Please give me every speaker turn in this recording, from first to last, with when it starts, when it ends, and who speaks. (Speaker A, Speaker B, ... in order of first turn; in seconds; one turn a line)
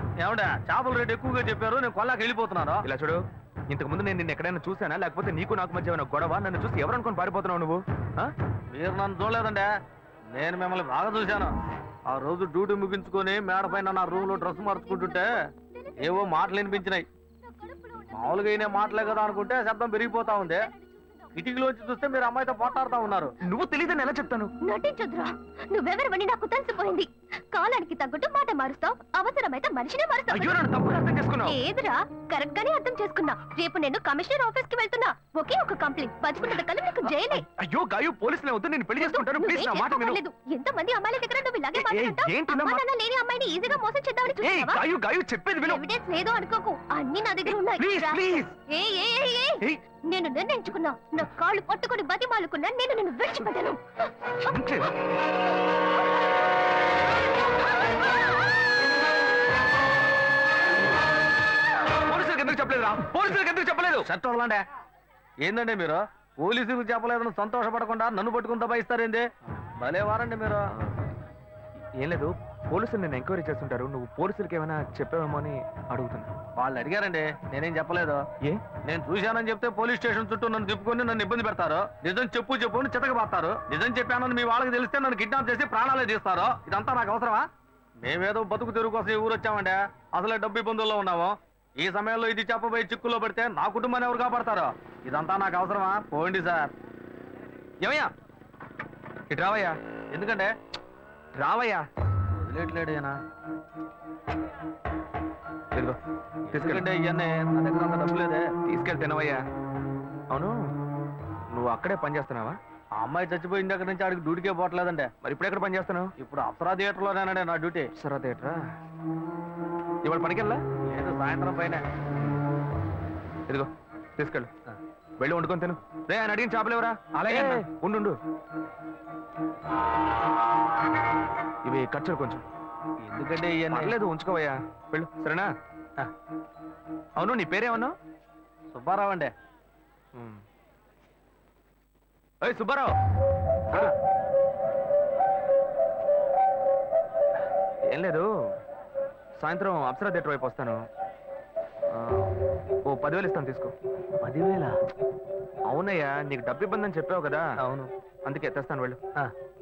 Speaker A: 0.2-2.9
Speaker B: 2.8-8.3
Speaker A: 8.7-9.7
Speaker A: 10.3-11.6
Speaker A: 12.1-15.4
Speaker C: 13.6-19.4
Speaker A: 16.0-17.1
Speaker A: 18.1-20.7
Speaker C: 20.1-21.3
Speaker A: 21.4-23.4
Speaker B: 23.5-24.5
Speaker C: 24.6-30.6
Speaker B: 30.3-31.6
Speaker C: 31.4-37.4
Speaker B: 37.3-40.2
Speaker C: 39.0-44.8
Speaker B: 41.8-42.8
Speaker B: 44.4-45.8
Speaker C: 45.7-53.8
Speaker B: 47.5-48.5
Speaker C: 54.3-54.6
Speaker B: 54.5-54.9
Speaker B: 62.1-64.1
Speaker A: 64.0-64.6
Speaker A: 65.4-69.3
Speaker A: 69.8-70.6
Speaker B: 70.8-71.1
Speaker B: 72.0-76.3
Speaker A: 76.6-78.3
Speaker B: 78.4-78.7
Speaker A: 78.8-87.5
Speaker A: 88.0-96.7
Speaker B: 97.8-98.1
Speaker B: 99.3-99.8
Speaker A: 100.1-100.5
Speaker B: 101.4-101.8
Speaker A: 102.3-103.2
Speaker A: 106.5-108.5
Speaker B: 106.5-106.9
Speaker B: 108.7-109.4
Speaker B: 111.5-112.6
Speaker A: 113.0-115.1
Speaker B: 115.2-116.1
Speaker A: 116.2-117.9
Speaker B: 118.0-118.6
Speaker B: 120.0-120.6
Speaker A: 120.9-121.8
Speaker B: 123.5-124.5
Speaker B: 125.2-128.2
Speaker A: 127.2-127.6
Speaker B: 131.6-132.4
Speaker A: 133.0-134.0
Speaker B: 133.7-135.5
Speaker B: 137.2-137.9
Speaker A: 138.7-139.3
Speaker B: 140.2-140.4
Speaker B: 142.4-142.9
Speaker B: 147.9-148.2
Speaker B: 149.4-150.8
Speaker B: 151.9-152.3
Speaker B: 152.9-153.7
Speaker A: 154.2-154.7
Speaker B: 155.7-157.5
Speaker B: 158.3-159.0